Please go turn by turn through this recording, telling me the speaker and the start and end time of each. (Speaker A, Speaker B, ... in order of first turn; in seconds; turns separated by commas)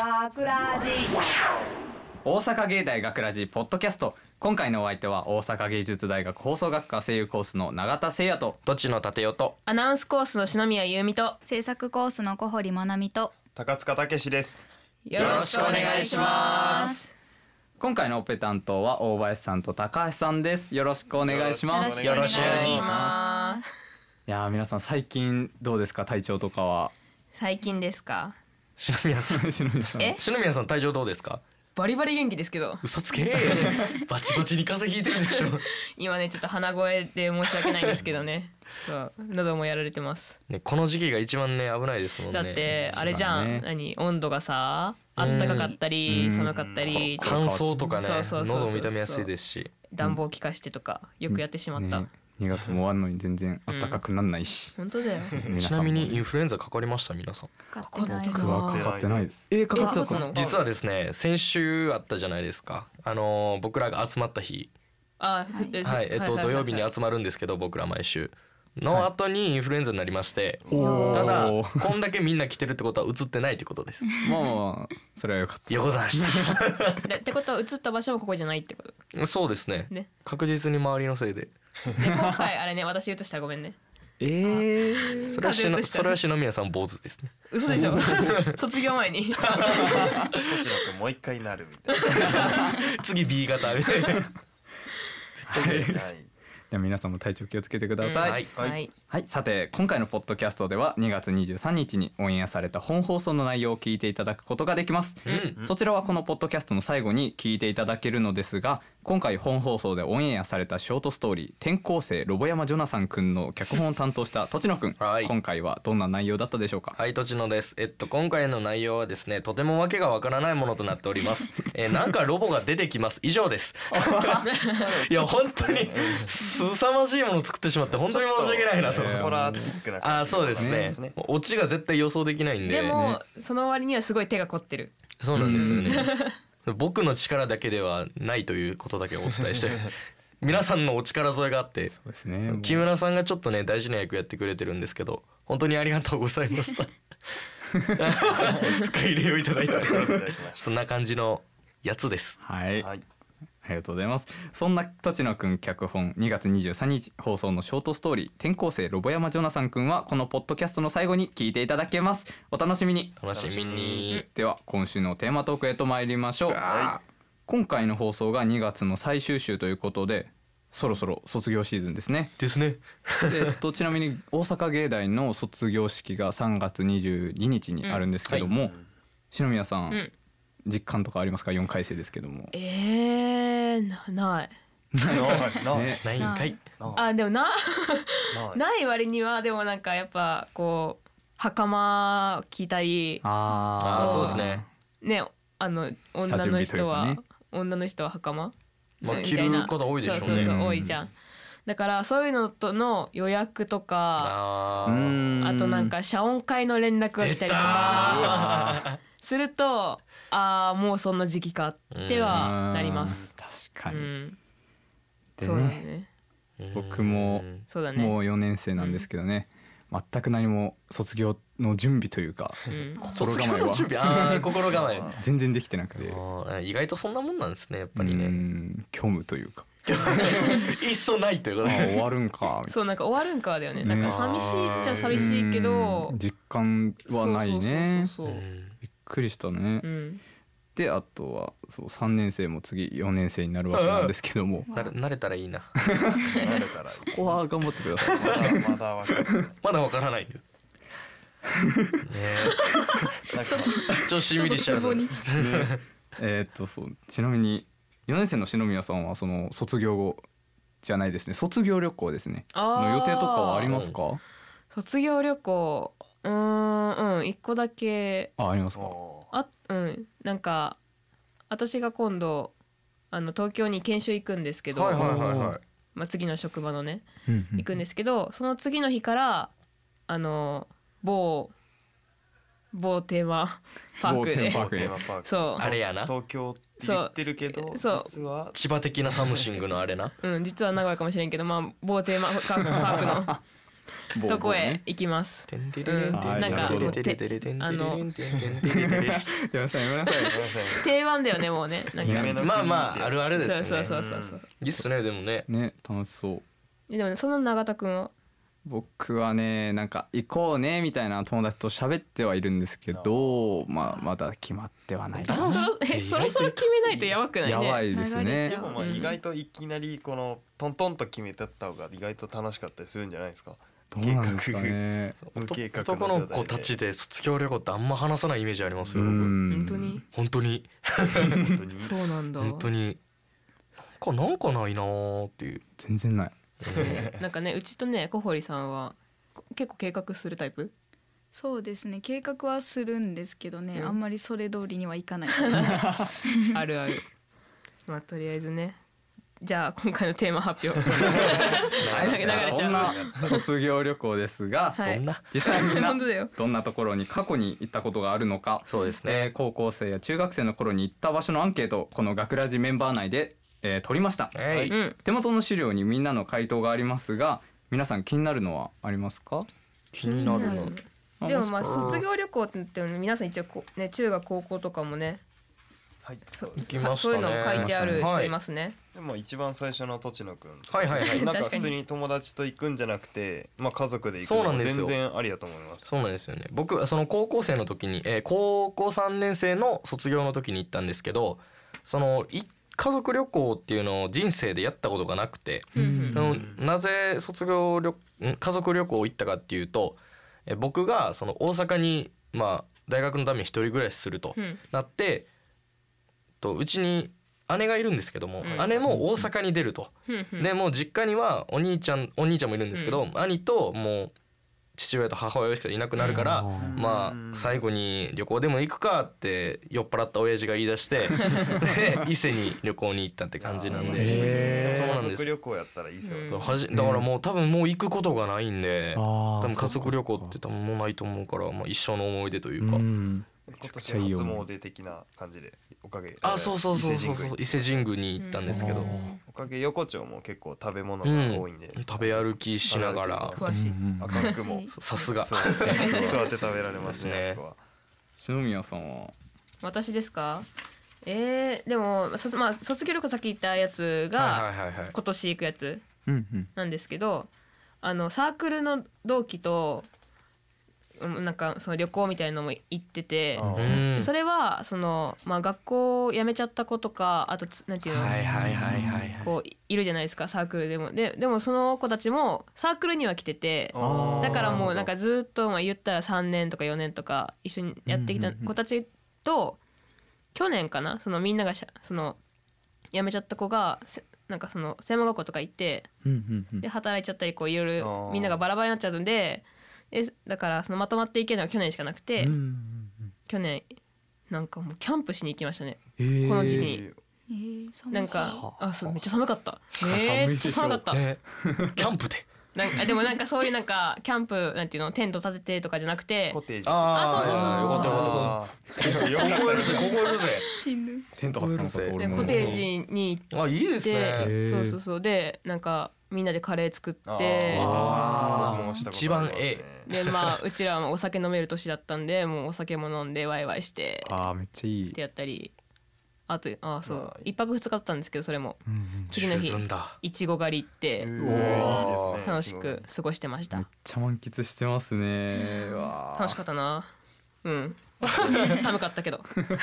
Speaker A: 2.2-8.6, Speaker B: 8.7-9.6, Speaker C: 9.7-11.4, Speaker D: 11.4-13.3, Speaker E: 13.5-14.7, Speaker C: 15.1-17.1, Speaker B: 15.2-16.9, Speaker A: 15.2-16.9, Speaker D: 16.2-16.9, Speaker A: 17.8-23.0, Speaker E: 21.2-23.1, Speaker D: 21.7-23.6, Speaker B: 22.0-22.9, Speaker C: 22.3-23.6, Speaker A: 24.3-26.9, Speaker C: 27.3-28.4, Speaker B: 28.8-29.5, Speaker A: 29.3-30.2, Speaker B: 30.1-31.4, Speaker C: 31.8-32.8, Speaker B: 32.8-35.7, Speaker C: 35.8-40.4, Speaker E: 37.9-38.3, Speaker B: 40.5-42.9, Speaker C: 42.3-49.3, Speaker A: 42.7-43.7, Speaker B: 45.2-45.8, Speaker A: 46.1-48.0, Speaker E: 46.5-47.1, Speaker B: 47.2-49.7, Speaker C: 49.9-52.1, Speaker A: 51.3-54.8, Speaker C: 53.7-54.0, Speaker C: 54.8-55.4, Speaker A: 55.3-56.2, Speaker B: 55.5-57.5, Speaker D: 57.7-58.9, Speaker C: 57.8-58.9, Speaker A: 58.1-60.3, Speaker E: 58.6-59.5, Speaker C: 59.7-60.4, Speaker D: 59.8-60.1, Speaker B: 60.3-64.7, Speaker E: 60.3-60.7, Speaker C: 65.2-66.9, Speaker D: 65.5-65.8, Speaker B: 65.8-74.0, Speaker E: 70.7-71.4, Speaker A: 70.7-71.9, Speaker D: 70.7-71.4, Speaker A: 74.2-76.8, Speaker B: 75.7-77.0, Speaker C: 77.0-79.0, Speaker B: 79.1-81.5, Speaker C: 82.0-83.8, Speaker A: 84.2-85.2, Speaker C: 85.2-86.2, Speaker B: 85.3-88.5, Speaker C: 87.5-90.3, Speaker A: 87.7-88.4, Speaker B: 89.4-90.0, Speaker E: 90.3-92.7, Speaker B: 92.1-94.3, Speaker A: 95.5-96.1, Speaker B: 95.5-96.0, Speaker E: 95.6-96.3, Speaker A: 96.7-98.5, Speaker C: 98.0-98.9, Speaker B: 98.2-98.5, Speaker A: 99.1-117.0, Speaker B: 105.2-105.6, Speaker E: 105.3-105.7, Speaker B: 115.0-115.3, Speaker B: 117.0-129.2, Speaker A: 123.9-124.5, Speaker C: 124.5-124.8, Speaker E: 124.7-126.3, Speaker E: 127.9-131.2, Speaker A: 128.8-129.8, Speaker B: 130.0-133.0, Speaker A: 130.6-131.0, Speaker C: 132.7-134.9, Speaker A: 132.9-133.2, Speaker B: 135.2-136.1, Speaker A: 135.3-136.1, Speaker C: 135.6-136.4, Speaker B: 136.7-141.9, Speaker A: 141.9-142.8, Speaker B: 142.5-147.0, Speaker B: 147.9-152.4, Speaker E: 148.2-148.9, Speaker E: 149.6-150.7, Speaker A: 152.4-152.9, Speaker E: 152.8-153.0, Speaker A: 153.6-163.2, Speaker B: 163.2-164.2, Speaker E: 163.3-164.1, Speaker A: 164.2-166.6, Speaker B: 166.5-167.0, Speaker E: 166.7-167.0, Speaker A: 167.5-172.3, Speaker B: 172.4-173.6, Speaker A: 173.3-178.8, Speaker E: 178.5-178.9, Speaker A: 179.3-180.0, Speaker A: 180.7-182.5, Speaker C: 182.5-184.5, Speaker A: 184.9-186.1, Speaker E: 185.0-187.1, Speaker B: 186.0-186.6, Speaker D: 186.2-186.6, Speaker C: 186.9-193.2, Speaker E: 188.3-188.6, Speaker A: 193.2-194.7, Speaker B: 193.8-194.6, Speaker C: 193.9-194.5, Speaker C: 195.0-201.1, Speaker A: 196.2-197.2, Speaker B: 199.0-200.6, Speaker A: 200.2-201.0, Speaker C: 201.7-204.4, Speaker B: 204.2-205.3, Speaker A: 204.8-205.9, Speaker C: 205.4-208.4, Speaker B: 207.2-209.0, Speaker A: 207.9-208.9, Speaker C: 209.2-213.3, Speaker B: 211.9-212.5, Speaker A: 212.3-214.1, Speaker C: 213.9-214.4, Speaker A: 215.4-215.8, Speaker C: 215.4-216.1, Speaker B: 216.6-217.7, Speaker A: 216.7-226.2, Speaker C: 217.7-218.2, Speaker C: 218.8-219.1, Speaker C: 222.7-223.1, Speaker B: 223.1-225.1, Speaker E: 224.7-225.2, Speaker B: 226.0-228.4, Speaker A: 227.9-230.7, Speaker B: 229.9-232.1, Speaker A: 231.6-232.8, Speaker C: 232.7-236.2, Speaker A: 233.8-238.1, Speaker B: 234.1-235.0, Speaker E: 234.1-235.2, Speaker C: 237.1-238.4, Speaker B: 238.2-238.8, Speaker A: 238.9-239.9, Speaker C: 239.8-240.2, Speaker A: 240.8-244.7, Speaker B: 243.7-244.1, Speaker D: 244.7-244.9, Speaker B: 244.7-245.7, Speaker A: 245.8-246.3, Speaker E: 246.3-247.4, Speaker A: 246.9-248.7, Speaker B: 248.0-248.5, Speaker E: 248.1-249.6, Speaker B: 249.6-250.4, Speaker A: 251.6-252.1, Speaker B: 252.1-252.6, Speaker E: 253.3-253.9, Speaker D: 253.4-255.3, Speaker B: 253.7-255.8, Speaker A: 255.2-260.2, Speaker A: 260.8-264.2, Speaker C: 262.5-263.7, Speaker B: 263.7-263.9, Speaker C: 264.7-268.3, Speaker A: 268.4-269.0, Speaker E: 268.8-269.3, Speaker C: 269.3-270.8, Speaker C: 271.5-272.5, Speaker C: 273.1-275.0, Speaker B: 274.7-275.6, Speaker A: 275.0-275.6, Speaker C: 275.9-279.5, Speaker A: 277.3-277.7, Speaker C: 280.1-281.5, Speaker C: 282.7-285.7, Speaker A: 284.0-285.0, Speaker E: 284.5-288.6, Speaker B: 285.6-286.1, Speaker C: 286.8-288.1, Speaker B: 288.5-290.1, Speaker E: 289.2-289.4, Speaker C: 290.2-293.4, Speaker A: 292.7-293.4, Speaker A: 294.1-294.8, Speaker C: 294.2-298.0, Speaker B: 295.5-299.3, Speaker A: 296.1-297.1, Speaker A: 298.7-300.6, Speaker E: 300.2-300.9, Speaker C: 300.7-302.8, Speaker E: 302.0-304.4, Speaker A: 302.0-302.4, Speaker B: 302.4-304.0, Speaker C: 303.4-304.5, Speaker B: 304.5-305.5, Speaker A: 305.5-306.4, Speaker C: 306.9-308.1, Speaker A: 308.6-315.7, Speaker E: 312.9-313.6, Speaker B: 315.2-317.1, Speaker C: 315.3-317.8, Speaker A: 317.4-318.6, Speaker D: 317.9-319.2, Speaker E: 318.4-324.8, Speaker C: 318.8-319.1, Speaker A: 323.9-325.2, Speaker B: 325.2-329.4, Speaker E: 325.3-326.8, Speaker E: 328.8-329.2, Speaker A: 328.9-330.0, Speaker C: 329.5-330.0, Speaker B: 330.1-331.4, Speaker E: 331.2-332.0, Speaker C: 331.8-332.7, Speaker B: 332.4-333.0, Speaker B: 334.0-335.6, Speaker A: 335.8-336.4, Speaker B: 336.6-337.1, Speaker C: 336.7-339.0, Speaker C: 339.5-340.7, Speaker D: 341.3-346.4, Speaker C: 345.4-345.7, Speaker A: 345.6-346.1, Speaker C: 346.5-347.1, Speaker C: 347.9-348.8, Speaker C: 349.4-353.4, Speaker E: 350.9-353.2, Speaker B: 351.1-352.9, Speaker A: 351.9-369.5, Speaker C: 354.8-356.3, Speaker B: 354.9-355.2, Speaker B: 358.7-359.3, Speaker B: 364.3-364.7, Speaker E: 364.5-364.8, Speaker C: 364.7-365.0, Speaker B: 369.9-370.8, Speaker C: 370.1-375.2, Speaker A: 371.2-372.0, Speaker B: 371.6-372.0, Speaker E: 376.0-376.8, Speaker C: 376.3-378.8, Speaker B: 376.6-378.4, Speaker A: 377.5-378.1, Speaker E: 378.9-385.9, Speaker B: 380.7-381.3, Speaker C: 381.0-381.8, Speaker B: 384.2-385.0, Speaker B: 385.9-405.3, Speaker C: 395.8-396.2, Speaker A: 395.8-396.3, Speaker E: 396.1-396.6, Speaker B: 406.4-414.1, Speaker C: 408.4-408.7, Speaker E: 408.4-408.9, Speaker A: 408.9-409.3, Speaker C: 410.1-410.5, Speaker C: 412.7-413.0, Speaker B: 414.8-425.3, Speaker C: 416.0-416.8, Speaker A: 416.1-416.8, Speaker E: 416.6-417.6, Speaker E: 423.4-426.5, Speaker C: 423.7-424.9, Speaker A: 423.9-425.0, Speaker C: 426.0-426.6, Speaker B: 426.3-432.9, Speaker A: 426.7-427.1, Speaker A: 428.9-430.4, Speaker A: 432.6-434.5, Speaker E: 433.5-437.6, Speaker B: 436.2-438.9, Speaker C: 438.2-439.2, Speaker A: 438.5-439.2, Speaker E: 439.2-447.6, Speaker B: 441.0-443.4, Speaker C: 443.4-445.1, Speaker A: 443.5-444.3, Speaker D: 444.3-444.8, Speaker B: 444.7-447.4, Speaker C: 445.7-446.2, Speaker A: 448.2-449.1, Speaker C: 449.6-450.5, Speaker C: 451.0-455.8, Speaker B: 454.1-454.9, Speaker A: 456.1-456.5, Speaker C: 456.6-457.3, Speaker C: 457.8-459.9, Speaker C: 461.0-468.5, Speaker E: 463.4-463.8, Speaker B: 463.6-464.1, Speaker B: 467.9-469.2, Speaker A: 468.1-469.2, Speaker C: 469.2-479.6, Speaker E: 473.7-474.9, Speaker A: 473.8-474.7, Speaker A: 477.9-478.5, Speaker C: 480.3-482.2, Speaker C: 482.9-485.9, Speaker A: 486.0-486.7, Speaker C: 486.6-492.4, Speaker E: 487.8-488.4, Speaker A: 492.2-493.1, Speaker C: 493.3-493.7, Speaker C: 494.3-496.8, Speaker A: 496.0-496.7, Speaker E: 496.3-497.0, Speaker D: 497.3-498.5, Speaker C: 497.9-501.0, Speaker A: 498.3-499.0, Speaker A: 499.8-501.9, Speaker B: 500.9-502.3, Speaker C: 502.5-506.4, Speaker E: 506.3-510.1, Speaker B: 506.6-510.5, Speaker C: 506.9-508.2, Speaker A: 507.8-508.3, Speaker D: 510.5-511.1, Speaker A: 511.2-512.6, Speaker B: 511.4-512.7, Speaker C: 512.0-517.8, Speaker B: 513.3-514.3, Speaker A: 514.2-514.8, Speaker E: 517.1-519.9, Speaker A: 517.5-518.7, Speaker B: 517.6-520.1, Speaker D: 518.5-518.8, Speaker C: 519.9-524.2, Speaker A: 524.0-525.0, Speaker C: 524.9-525.5, Speaker C: 526.3-533.7, Speaker E: 526.9-527.3, Speaker A: 528.7-529.2, Speaker B: 529.1-530.0, Speaker E: 531.0-532.9, Speaker A: 531.2-531.9, Speaker B: 531.4-532.2, Speaker A: 533.5-536.4, Speaker D: 535.4-535.9, Speaker C: 536.1-536.9, Speaker C: 537.4-539.3, Speaker B: 538.1-538.6, Speaker E: 538.1-538.6